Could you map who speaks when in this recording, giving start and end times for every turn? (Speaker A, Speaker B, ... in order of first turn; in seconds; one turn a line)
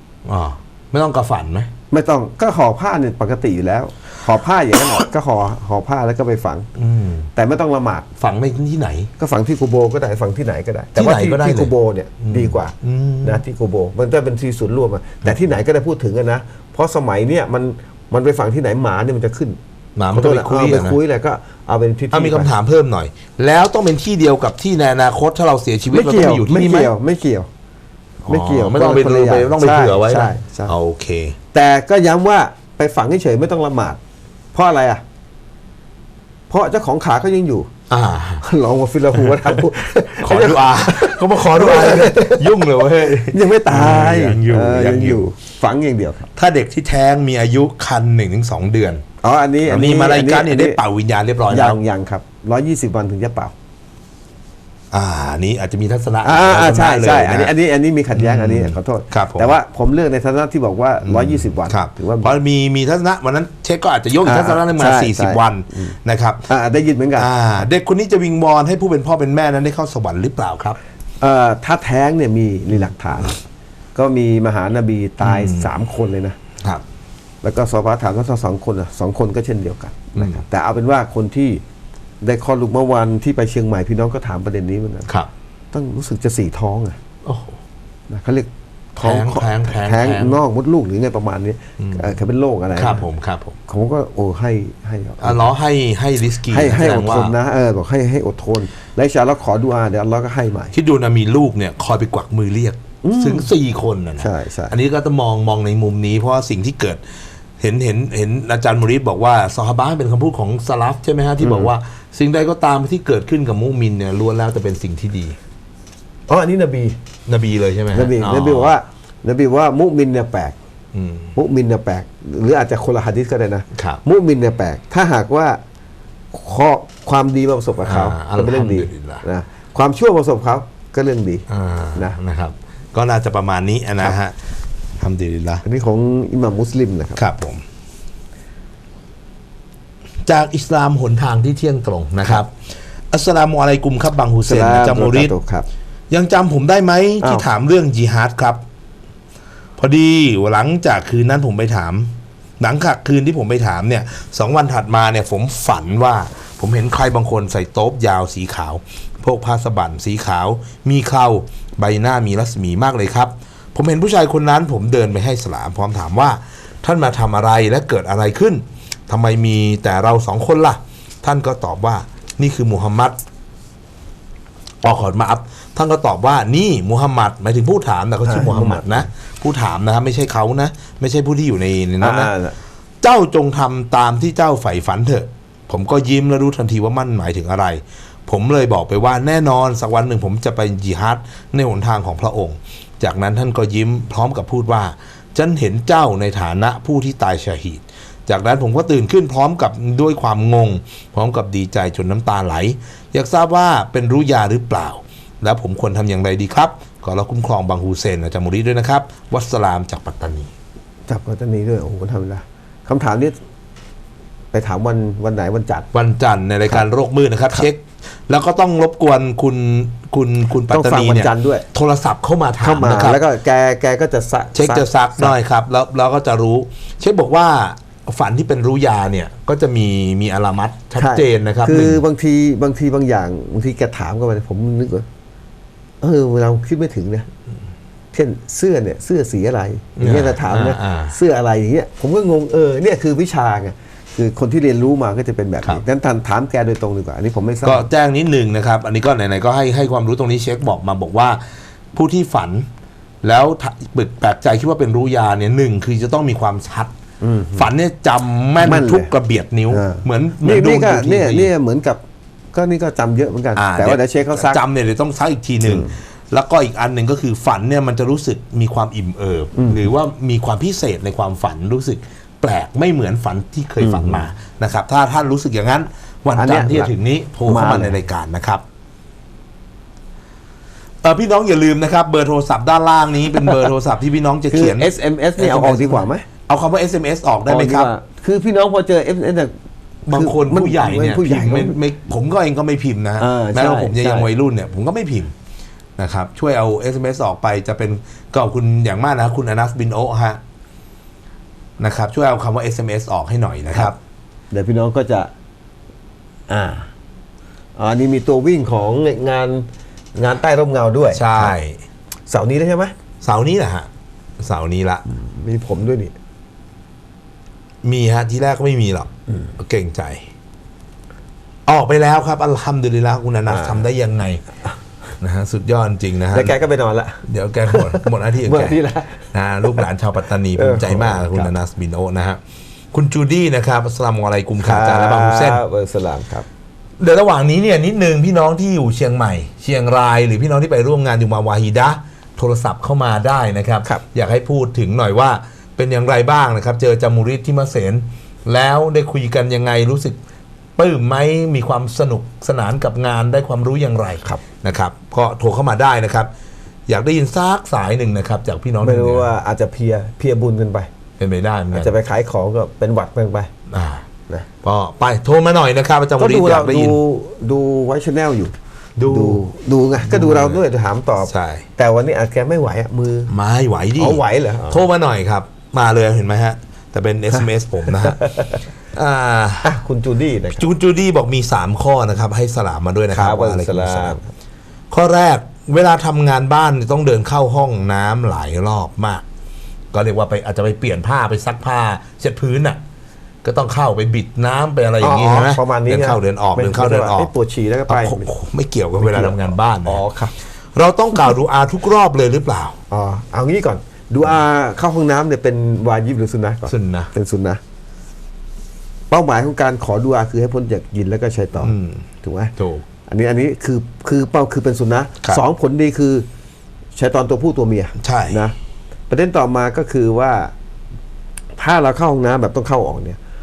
Speaker A: 0.3-1.7
Speaker B: 1.9-6.7
Speaker A: 6.8-7.3
Speaker B: 7.3-8.1
Speaker A: 8.2-9.1
Speaker B: 9.2-19.6
Speaker A: 11.0-13.4
Speaker A: 20.0-21.0
Speaker B: 20.1-22.5
Speaker A: 22.1-26.9
Speaker B: 25.9-27.5
Speaker A: 28.2-31.4
Speaker B: 28.3-30.8
Speaker B: 31.5-34.0
Speaker B: 34.5-35.0
Speaker B: 36.5-37.7
Speaker A: 37.9-38.5
Speaker B: 38.4-46.3
Speaker A: 39.1-45.2
Speaker A: 46.4-49.0
Speaker B: 49.2-50.8
Speaker A: 49.6-51.8
Speaker B: 51.5-53.5
Speaker A: 54.9-57.5
Speaker B: 56.2-62.4
Speaker A: 58.1-59.5
Speaker A: 61.0-66.5
Speaker B: 64.2-66.0
Speaker B: 66.5-67.3
Speaker A: 67.2-70.8
Speaker B: 71.2-73.4
Speaker B: 74.0-76.4
Speaker A: 75.2-75.7
Speaker B: 77.4-81.6
Speaker A: 80.2-80.4
Speaker B: 82.2-85.1
Speaker B: 85.7-87.0
Speaker A: 87.2-87.6
Speaker B: 88.1-93.1
Speaker A: 89.0-90.4
Speaker A: 91.8-92.1
Speaker A: 92.8-93.6
Speaker B: 93.7-95.5
Speaker A: 95.2-97.3
Speaker B: 96.5-100.7
Speaker A: 100.7-107.0
Speaker B: 103.0-103.5
Speaker B: 104.2-104.7
Speaker A: 107.6-115.4
Speaker B: 111.4-111.7
Speaker B: 116.3-117.0
Speaker A: 117.3-118.8
Speaker B: 117.9-120.5
Speaker A: 120.9-121.3
Speaker B: 121.3-125.6
Speaker A: 123.7-124.0
Speaker B: 126.3-132.2
Speaker A: 127.9-129.2
Speaker A: 131.5-134.3
Speaker A: 135.0-135.6
Speaker B: 135.7-137.2
Speaker A: 137.2-137.6
Speaker A: 140.3-142.5
Speaker A: 143.1-145.3
Speaker B: 144.4-145.7
Speaker A: 146.1-148.6
Speaker A: 149.8-173.2
Speaker A: 174.8-182.3
Speaker B: 178.2-179.1
Speaker B: 182.0-182.6
Speaker A: 183.0-210.5
Speaker B: 211.1-213.3
Speaker B: 214.5-215.9
Speaker A: 215.9-223.2
Speaker B: 220.7-221.7
Speaker B: 222.6-225.3
Speaker A: 224.6-232.0
Speaker B: 231.0-235.1
Speaker B: 236.0-237.3
Speaker B: 238.1-247.9
Speaker A: 240.0-241.2
Speaker A: 247.6-252.7
Speaker A: 253.2-256.9
Speaker B: 257.2-257.7
Speaker A: 257.6-261.5
Speaker B: 258.6-259.1
Speaker B: 259.7-262.0
Speaker B: 262.5-264.6
Speaker A: 263.6-278.6
Speaker B: 265.6-265.9
Speaker B: 269.6-269.9
Speaker B: 273.8-274.3
Speaker B: 276.3-276.9
Speaker B: 277.4-278.0
Speaker A: 281.0-287.9
Speaker B: 284.5-286.3
Speaker B: 287.5-289.5
Speaker A: 290.1-295.3
Speaker B: 290.1-291.8
Speaker B: 293.2-294.3
Speaker A: 296.0-300.4
Speaker A: 301.8-304.0
Speaker B: 304.5-305.3
Speaker B: 306.5-306.9
Speaker B: 307.8-311.6
Speaker A: 311.1-311.8
Speaker B: 312.3-312.9
Speaker A: 313.2-313.9
Speaker A: 314.4-315.1
Speaker B: 315.1-316.1
Speaker A: 317.8-320.3
Speaker A: 321.7-324.4
Speaker B: 323.5-323.9
Speaker A: 325.2-326.6
Speaker B: 326.3-329.8
Speaker A: 327.3-328.8
Speaker A: 329.3-332.4
Speaker B: 330.6-331.5
Speaker A: 332.9-335.6
Speaker B: 334.6-336.5
Speaker A: 337.0-350.2
Speaker A: 350.8-356.3
Speaker A: 356.9-359.3
Speaker B: 358.8-360.9
Speaker A: 361.2-361.9
Speaker B: 361.7-363.5
Speaker A: 363.7-364.1
Speaker A: 364.6-367.0
Speaker B: 366.2-368.5
Speaker A: 369.0-369.4
Speaker B: 369.1-373.3
Speaker A: 370.0-370.6
Speaker A: 371.3-371.6
Speaker A: 373.3-378.2
Speaker B: 374.0-374.9
Speaker B: 378.0-378.6
Speaker A: 378.9-379.8
Speaker B: 379.6-380.7
Speaker A: 380.6-384.2
Speaker B: 383.1-384.3
Speaker A: 384.9-389.2
Speaker A: 389.9-392.8
Speaker A: 393.4-397.3
Speaker B: 395.0-398.3
Speaker A: 397.9-400.0
Speaker B: 399.0-400.3
Speaker A: 400.7-402.8
Speaker B: 402.9-407.6
Speaker A: 406.7-407.1
Speaker B: 409.1-412.5
Speaker A: 411.6-412.1
Speaker A: 412.6-412.9
Speaker B: 413.1-416.3
Speaker B: 417.0-418.5
Speaker A: 418.0-418.4
Speaker B: 419.1-420.5
Speaker B: 421.6-423.2